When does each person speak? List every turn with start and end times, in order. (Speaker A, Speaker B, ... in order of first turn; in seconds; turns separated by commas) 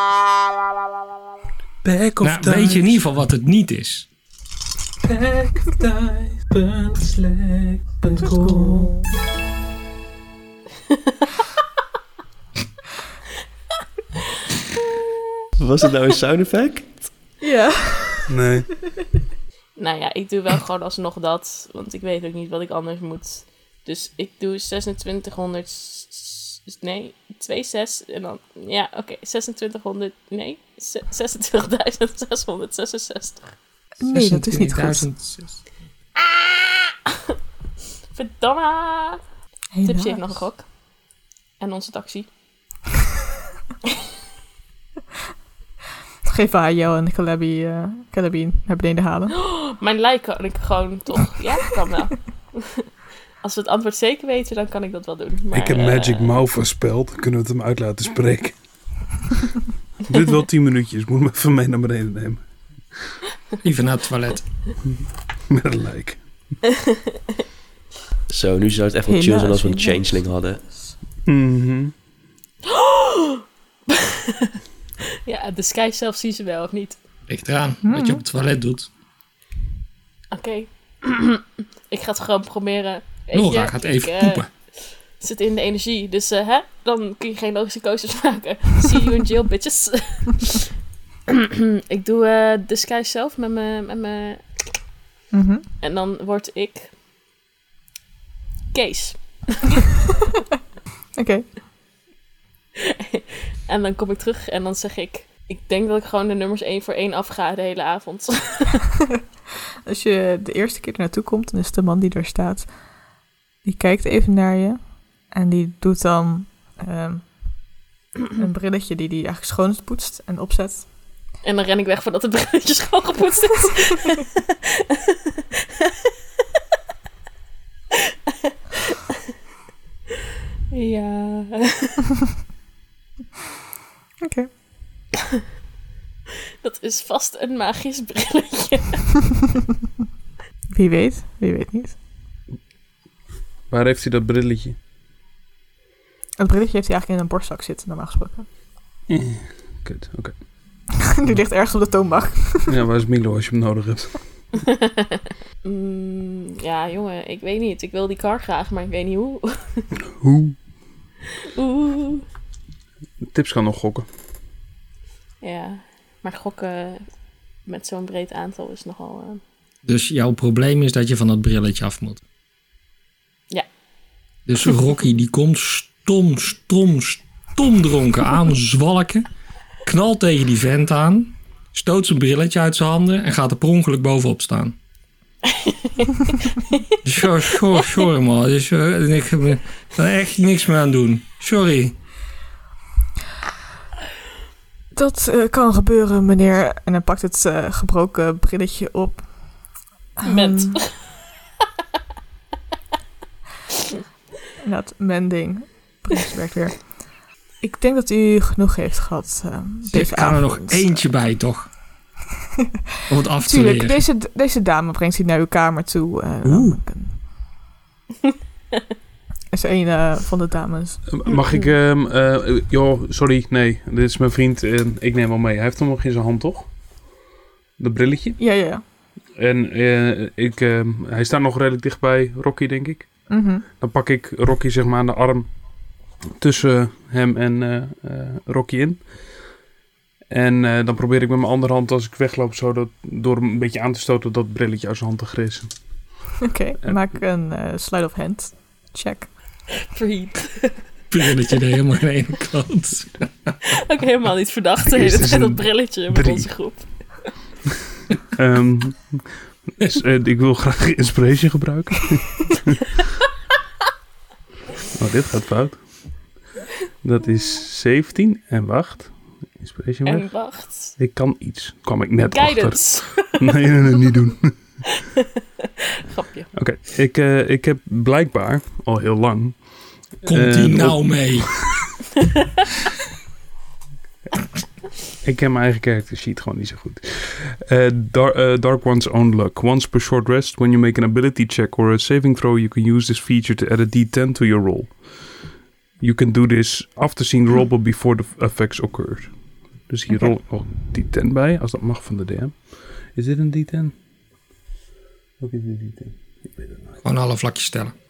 Speaker A: 1.8-3.0, Speaker B: 2.2-4.1, Speaker A: 5.0-9.0, Speaker C: 8.2-9.0, Speaker D: 15.6-17.1, Speaker C: 17.4-18.3, Speaker A: 18.3-18.7, Speaker E: 19.8-33.5, Speaker C: 34.0-35.1, Speaker B: 34.0-35.6, Speaker E: 36.2-37.3, Speaker E: 38.1-39.2, Speaker C: 39.7-40.4, Speaker E: 39.8-40.6, Speaker E: 41.6-42.3, Speaker C: 46.2-49.3, Speaker E: 49.3-52.9, Speaker E: 53.4-56.4, Speaker A: 55.5-58.6, Speaker A: 60.0-62.9, Speaker B: 63.6-64.5, Speaker A: 65.5-66.2, Speaker E: 66.7-67.1, Speaker D: 68.3-70.6, Speaker C: 69.1-70.8, Speaker A: 71.2-71.9, Speaker E: 72.6-74.6, Speaker E: 75.2-77.0, Speaker B: 77.3-78.9, Speaker C: 77.8-78.2, Speaker E: 80.3-90.7, Speaker B: 83.3-84.5, Speaker E: 91.3-94.4, Speaker C: 95.3-95.6, Speaker E: 95.8-96.9, Speaker E: 98.7-99.8, Speaker C: 101.2-101.5, Speaker E: 102.8-108.8, Speaker C: 109.8-112.7, Speaker C: 113.6-117.3, Speaker C: 118.3-120.9, Speaker E: 121.4-125.2, Speaker E: 128.3-129.2, Speaker E: 130.7-132.0, Speaker C: 134.2-134.5, Speaker E: 136.6-139.1, Speaker C: 140.7-142.0, Speaker A: 143.7-144.8, Speaker C: 146.4-148.5, Speaker A: 149.1-150.4, Speaker C: 151.0-152.8, Speaker A: 152.7-154.3, Speaker E: 154.6-159.9, Speaker A: 160.2-160.6, Speaker E: 161.4-162.2, Speaker A: 163.2-164.1, Speaker E: 165.4-167.1, Speaker E: 167.7-169.4, Speaker B: 169.8-172.2, Speaker B: 174.4-179.2, Speaker B: 179.8-184.8, Speaker E: 185.5-186.8, Speaker B: 187.0-191.9, Speaker C: 194.9-199.5, Speaker C: 200.2-200.8, Speaker E: 200.2-201.0, Speaker C: 204.6-207.0, Speaker C: 207.6-211.1, Speaker B: 209.9-211.7, Speaker B: 213.1-214.0, Speaker C: 213.4-217.2, Speaker A: 216.5-216.7, Speaker C: 219.5-221.0, Speaker A: 221.1-226.7, Speaker A: 227.8-228.4, Speaker C: 228.4-228.8, Speaker A: 229.4-233.1, Speaker C: 233.3-233.6, Speaker A: 233.7-235.5, Speaker A: 236.4-239.1, Speaker A: 240.3-245.7, Speaker C: 246.4-249.3, Speaker A: 246.8-247.1, Speaker E: 249.8-250.8, Speaker B: 251.1-253.5, Speaker E: 253.7-257.3, Speaker A: 254.8-256.5, Speaker A: 258.3-262.8, Speaker A: 264.9-265.9, Speaker A: 267.0-274.8, Speaker E: 270.0-271.0, Speaker E: 272.3-274.1, Speaker E: 274.9-276.5, Speaker A: 276.5-281.9, Speaker B: 280.2-281.6, Speaker A: 285.2-295.4, Speaker A: 296.0-303.9, Speaker C: 300.1-300.4, Speaker A: 305.4-307.0, Speaker B: 307.0-307.9